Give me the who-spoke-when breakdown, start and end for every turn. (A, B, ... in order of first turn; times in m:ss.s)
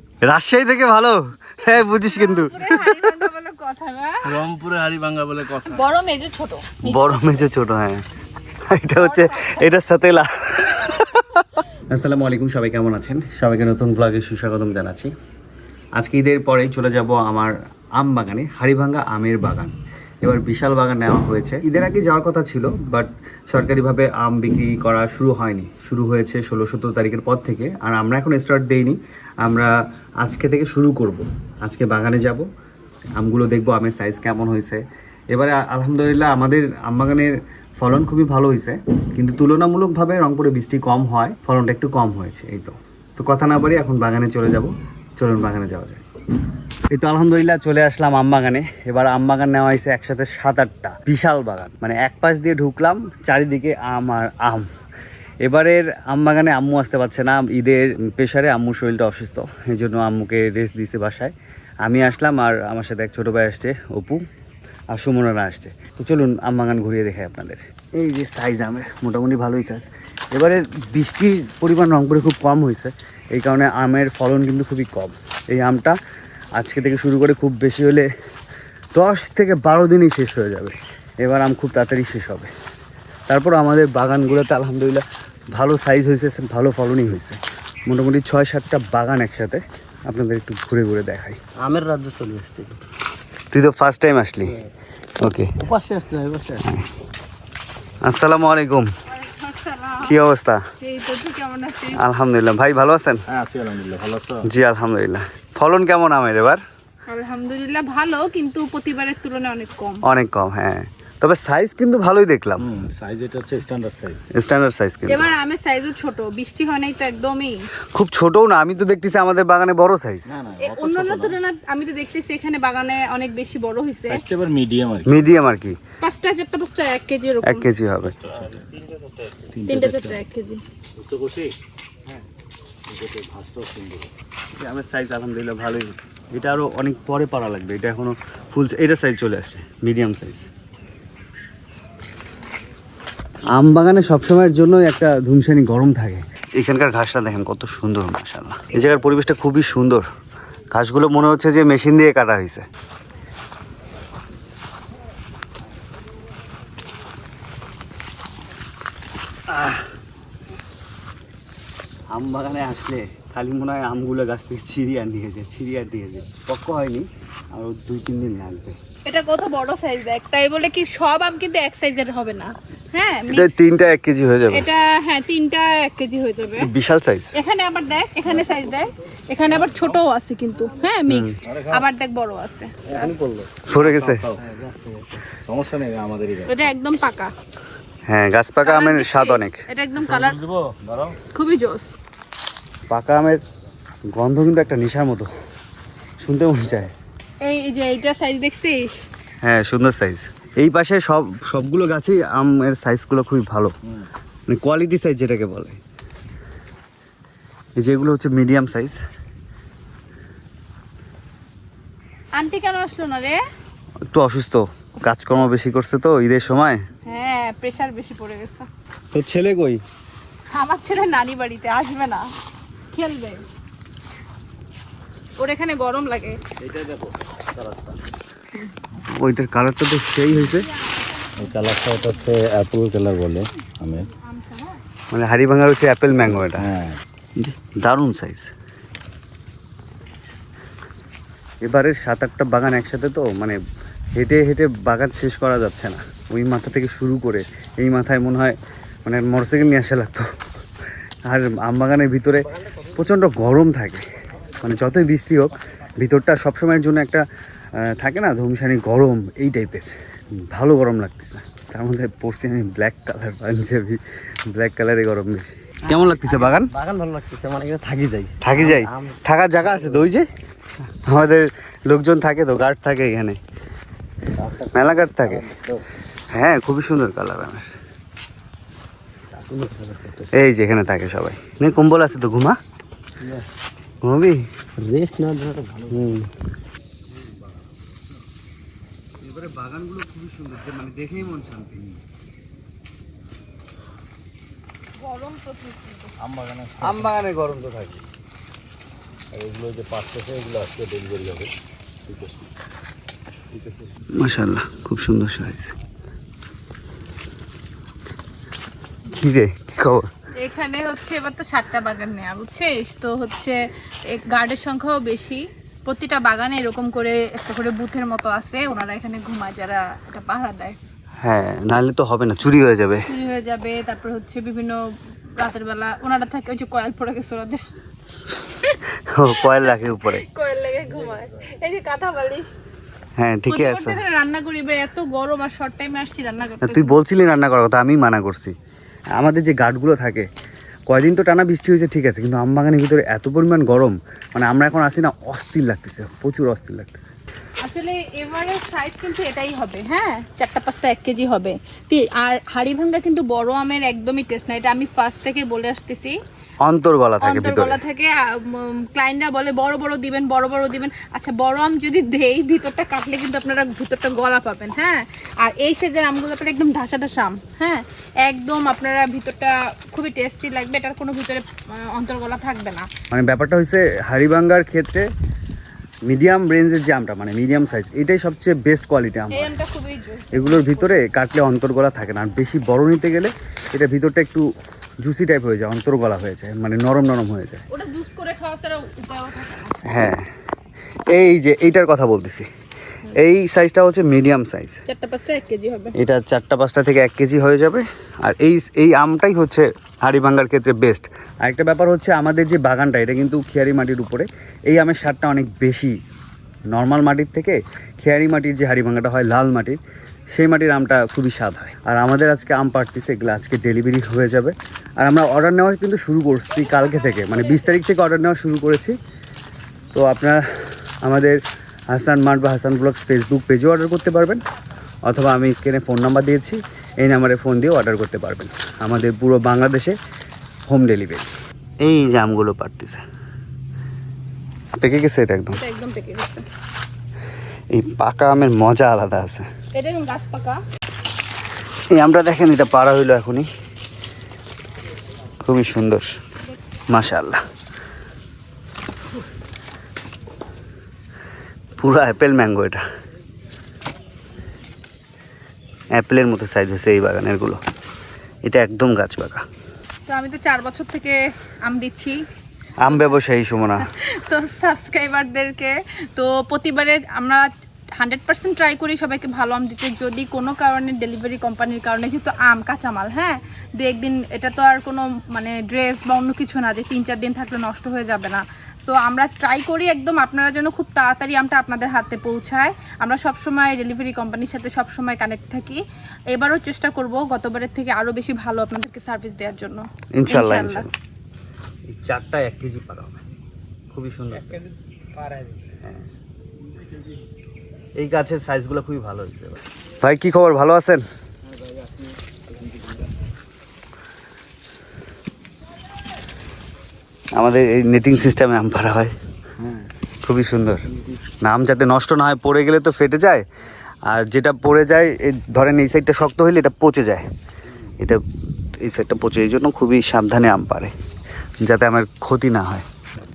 0:00.2-0:03.0 A
0:02.1-0:04.4 B
0:04.2-0:05.8 C
0:05.6-0:07.4 B
0:06.8-0:08.0 A
0:08.7-0:15.1 A
0:09.0-0:09.7 B
0:16.0-0:32.4 A
0:33.2-0:46.0 A
0:46.9-0:54.6 A
0:55.4-1:04.2 A
1:04.9-1:16.0 A
1:16.6-1:18.1 A
1:19.0-1:22.5 A
1:23.3-1:25.0 A
1:25.6-1:31.4 A
1:31.6-1:32.8 D
1:33.5-1:34.6 A
1:35.2-1:35.5 A
1:35.6-1:36.7 D
1:38.0-1:38.9 A
1:39.1-1:40.2 B
1:40.0-1:40.6 A
1:40.8-1:42.0 B
1:42.0-1:43.2 A
1:43.3-1:44.4 C
1:44.4-1:46.6 A
1:47.1-1:50.0 B
1:50.0-1:52.7 A
1:52.6-1:54.2 C
1:54.3-1:55.3 A
1:55.1-1:57.6 B
1:57.9-2:00.3 A
2:00.3-2:01.4 C
2:00.6-2:04.2 B
2:04.1-2:05.2 C
2:05.0-2:05.8 A
2:06.0-2:07.7 B
2:07.4-2:08.2 A
2:08.3-2:10.2 C
2:09.7-2:10.6 B
2:11.0-2:11.6 C
2:12.9-2:14.1 C
2:14.6-2:20.5 A
2:23.6-2:30.0 A
2:30.7-2:32.6 A
2:39.5-2:39.9 A
2:42.1-2:48.8 A
2:49.1-2:53.8 B
2:53.2-2:54.7 A
2:54.5-2:56.7 B
2:56.6-2:57.3 A
2:57.4-3:03.1 B
3:01.1-3:01.4 A
3:01.5-3:01.8 C
3:02.9-3:03.5 D
3:03.7-3:04.2 A
3:03.7-3:06.6 C
3:06.5-3:07.3 B
3:08.1-3:09.6 A
3:08.6-3:10.4 B
3:10.0-3:11.2 C
3:11.3-3:11.9 B
3:12.9-3:13.4 A
3:14.1-3:15.3 A
3:16.2-3:16.9 A
3:17.4-3:19.0 B
3:19.4-3:23.7 A
3:24.5-3:25.8 A
3:27.8-3:29.0 A
3:32.4-3:33.4 B
3:34.1-3:36.8 A
3:37.0-3:38.7 B
3:39.1-3:39.8 A
3:40.5-3:42.3 B
3:42.9-3:43.4 B
3:45.4-3:46.4 B
3:46.6-3:48.0 C
3:49.1-3:50.7 A
3:51.4-3:54.1 C
3:54.2-3:54.7 B
3:55.1-3:56.7 A
3:56.5-3:57.0 C
3:57.4-3:58.5 A
4:01.6-4:03.6 A
4:04.2-4:10.3 A
4:11.3-4:14.0 A
4:14.6-4:17.2 A
4:17.8-4:26.7 A
4:25.9-4:30.1 D
4:28.4-4:30.3 A
4:31.1-4:33.4 A
4:34.4-4:35.8 D
4:34.7-4:35.4 A
4:36.3-4:37.7 A
4:39.3-4:40.4 D
4:40.3-4:42.6 A
4:43.2-4:43.5 D
4:44.0-4:44.4 A
4:44.8-4:46.1 D
4:45.9-4:46.3 A
4:49.2-4:52.0 A
4:55.0-4:56.1 B
4:56.2-4:57.1 C
4:56.8-4:58.0 A
4:59.3-5:01.5 C
5:02.1-5:02.4 C
5:04.2-5:05.7 A
5:09.2-5:10.1 A
5:10.4-5:13.6 B
5:14.1-5:20.8 B
5:21.2-5:23.1 A
5:23.0-5:24.8 B
5:25.4-5:27.7 B
5:28.6-5:32.5 B
5:29.1-5:30.2 A
5:33.2-5:34.0 A
5:33.5-5:37.0 B
5:36.6-5:38.6 A
5:39.2-5:40.3 A
5:40.9-5:47.1 A
5:47.6-5:56.1 B
5:56.6-5:57.8 A
5:57.2-6:12.9 B
6:13.1-6:15.1 A
6:16.1-6:19.6 A
6:19.3-6:21.0 B
6:20.3-6:24.5 A
6:25.0-6:27.6 A
6:27.7-6:30.0 B
6:29.9-6:30.3 A
6:31.1-6:32.5 A
6:33.2-6:34.8 A
6:34.9-6:35.9 B
6:36.0-6:45.9 A
6:46.7-6:49.8 A
6:50.3-6:59.0 A
6:59.9-7:00.4 A
7:01.0-7:01.4 A
7:01.9-7:04.4 A
7:05.1-7:10.0 A
7:10.7-7:11.3 A
7:11.8-7:13.0 A
7:14.8-7:15.6 A
7:15.5-7:16.4 B
7:17.7-7:19.4 A
7:19.8-7:20.6 B
7:21.9-7:23.5 A
7:25.4-7:26.1 A
7:26.9-7:27.4 A
7:31.8-7:32.8 A
7:35.9-7:37.6 A
7:38.4-7:39.4 A
7:40.1-7:42.2 B
7:42.8-7:43.8 A
7:42.8-7:43.2 B
7:43.8-8:05.8 B
8:06.3-8:10.9 B
8:10.2-8:10.9 A
8:11.9-8:13.2 A
8:13.9-8:14.8 A
8:18.0-8:21.0 A
8:27.4-8:29.1 A
8:30.2-8:30.8 A
8:31.4-8:33.4 A
8:34.1-8:37.3 A
8:38.8-8:40.9 A
8:41.6-8:42.9 A